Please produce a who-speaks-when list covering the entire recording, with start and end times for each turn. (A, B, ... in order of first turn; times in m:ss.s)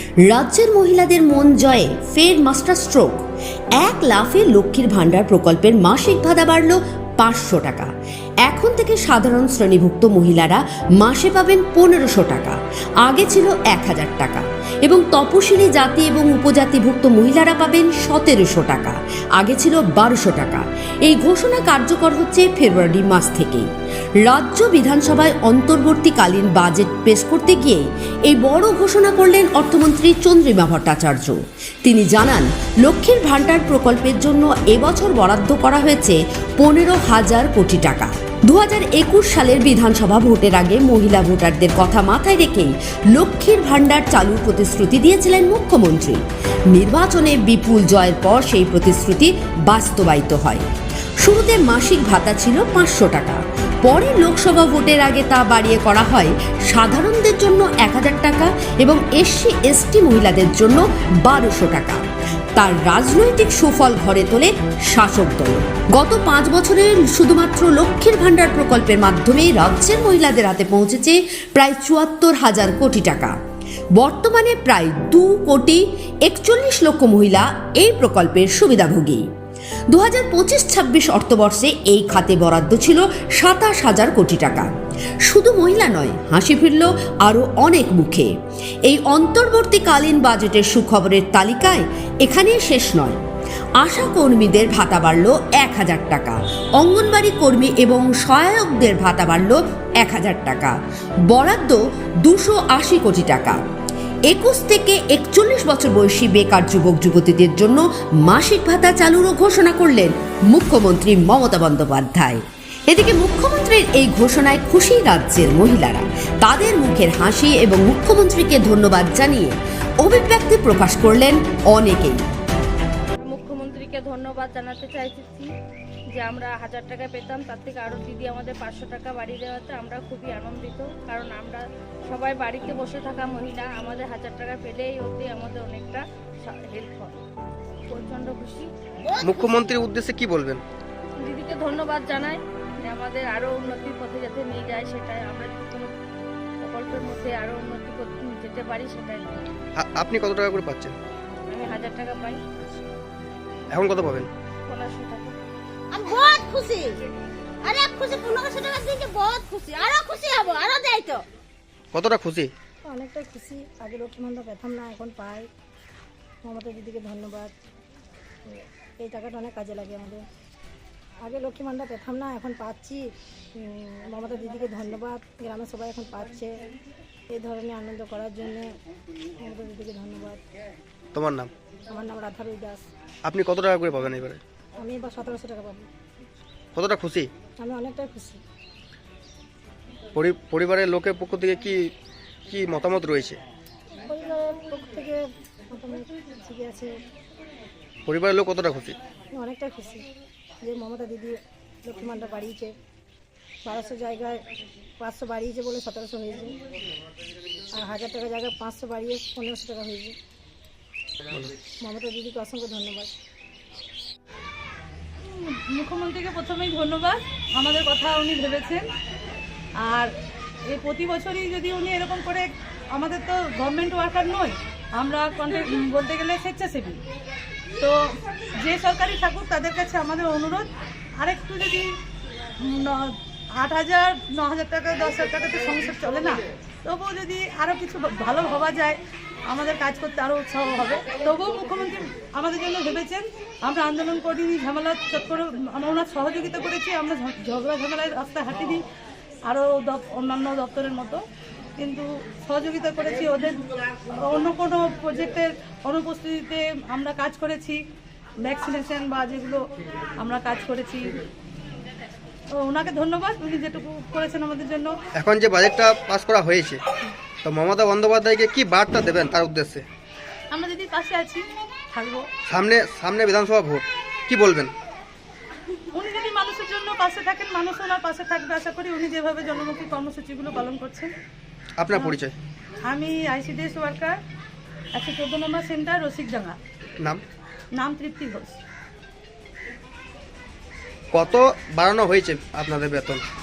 0:00.3-0:03.2 A
0:03.8-0:07.9 A
0:08.4-0:23.7 A
0:24.2-0:50.6 A
0:51.2-1:02.0 A
1:02.6-1:13.4 A
1:14.0-1:19.3 A
1:19.9-1:24.7 A
1:25.3-1:28.3 A
1:28.9-1:33.2 A
1:33.8-1:40.8 A
1:41.3-1:43.6 A
1:44.3-2:02.2 A
2:03.3-2:05.5 B
2:06.2-2:17.2 B
2:17.9-2:18.7 B
2:19.2-2:20.6 C
2:21.2-2:25.9 B
2:26.6-2:29.4 B
2:29.8-2:31.0 C
2:31.5-2:32.4 B
2:33.7-2:34.3 C
2:34.7-2:35.4 B
2:35.9-2:37.0 D
2:37.6-2:41.2 D
2:41.9-2:42.5 C
2:42.9-2:45.5 E
2:46.4-2:47.5 E
2:49.0-2:50.2 E
2:51.2-2:56.5 E
2:57.3-2:58.7 E
2:59.4-3:00.4 E
3:01.1-3:01.5 C
3:01.9-3:02.8 E
3:03.2-3:04.4 C
3:04.8-3:05.9 E
3:06.8-3:07.3 C
3:07.6-3:08.4 E
3:10.2-3:11.9 C
3:12.5-3:13.4 C
3:14.0-3:16.9 E
3:18.1-3:19.0 C
3:19.4-3:20.0 E
3:20.6-3:22.7 E
3:23.6-3:24.4 E
3:25.0-3:26.5 E
3:27.7-3:30.2 E
3:31.8-3:33.1 E
3:35.2-3:38.9 F
3:39.8-3:40.1 F
3:40.7-3:47.0 F
3:47.8-3:50.7 F
3:51.2-3:51.9 F
3:52.6-4:08.8 F
4:09.5-4:11.2 F
4:11.8-4:17.8 F
4:18.4-4:19.6 F
4:20.2-4:21.2 F
4:22.6-4:24.9 F
4:25.2-4:26.8 C
4:27.4-4:29.9 C
4:30.5-4:32.3 F
4:32.5-4:34.7 C
4:35.9-4:41.1 F
4:41.8-4:42.4 C
4:41.9-4:42.2 F
4:42.9-4:44.2 F
4:45.0-4:46.6 F
4:47.8-4:48.6 F
4:51.1-4:53.2 C